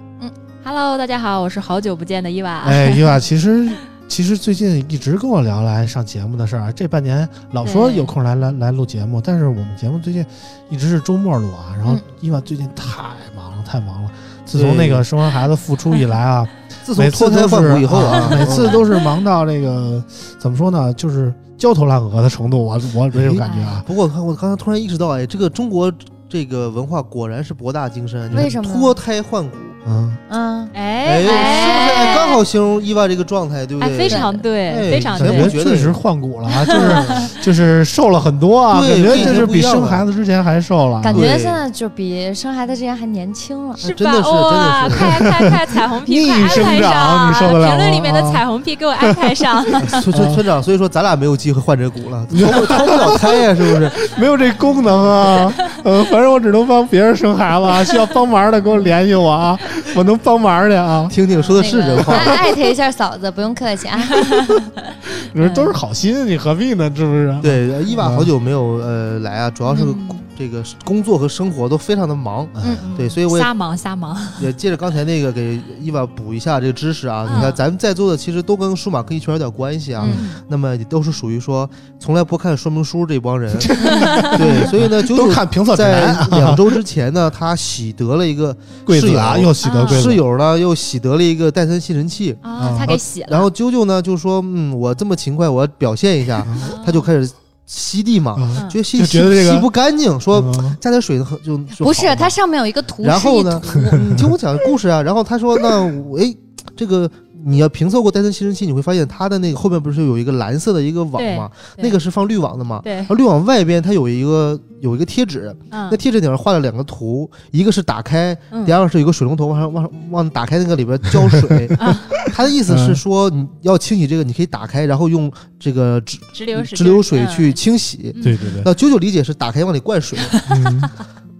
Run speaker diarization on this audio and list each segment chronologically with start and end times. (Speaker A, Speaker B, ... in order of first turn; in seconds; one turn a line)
Speaker A: 0.6-3.2
Speaker B: 2.6-23.9
Speaker A: 7.6-8.1
Speaker C: 14.6-15.1
Speaker C: 16.9-18.8
Speaker A: 18.1-18.8
Speaker C: 23.2-29.8
Speaker A: 23.4-23.8
Speaker D: 28.3-28.9
Speaker B: 29.9-30.2
Speaker D: 30.3-32.4
Speaker A: 30.7-32.4
Speaker C: 31.1-36.0
Speaker A: 33.8-35.6
Speaker D: 34.1-34.4
Speaker B: 35.2-41.3
Speaker A: 36.6-37.3
Speaker C: 36.8-37.2
Speaker C: 38.7-40.0
Speaker A: 39.1-39.5
Speaker D: 41.0-43.8
Speaker C: 41.1-41.6
Speaker C: 43.8-45.2
Speaker A: 43.8-50.0
Speaker B: 44.9-48.4
Speaker B: 49.0-50.4
Speaker C: 49.8-54.0
Speaker B: 52.3-61.1
Speaker A: 55.3-55.8
Speaker C: 61.1-62.4
Speaker A: 61.3-62.1
Speaker D: 61.6-64.3
Speaker A: 64.1-64.7
Speaker B: 65.2-68.3
Speaker A: 65.4-65.8
Speaker C: 67.4-73.5
Speaker A: 69.7-70.2
Speaker B: 72.5-72.9
Speaker A: 72.8-74.5
Speaker C: 74.4-102.3
Speaker A: 77.2-77.6
Speaker A: 80.0-80.4
Speaker B: 83.5-86.8
Speaker A: 83.8-84.7
Speaker D: 83.8-84.1
Speaker B: 88.8-90.3
Speaker A: 89.6-90.2
Speaker A: 92.4-93.5
Speaker B: 92.6-93.0
Speaker B: 96.4-96.7
Speaker A: 96.6-97.1
Speaker B: 98.3-99.7
Speaker B: 100.3-100.8
Speaker D: 101.8-103.9
Speaker C: 103.0-130.4
Speaker B: 103.8-104.4
Speaker A: 111.2-112.0
Speaker A: 112.8-113.1
Speaker A: 115.7-116.0
Speaker A: 118.5-118.8
Speaker B: 121.1-122.2
Speaker A: 121.8-122.2
Speaker B: 122.7-123.0
Speaker A: 126.3-127.6
Speaker A: 128.2-128.5
Speaker B: 128.2-128.7
Speaker A: 130.2-130.7
Speaker B: 130.5-130.9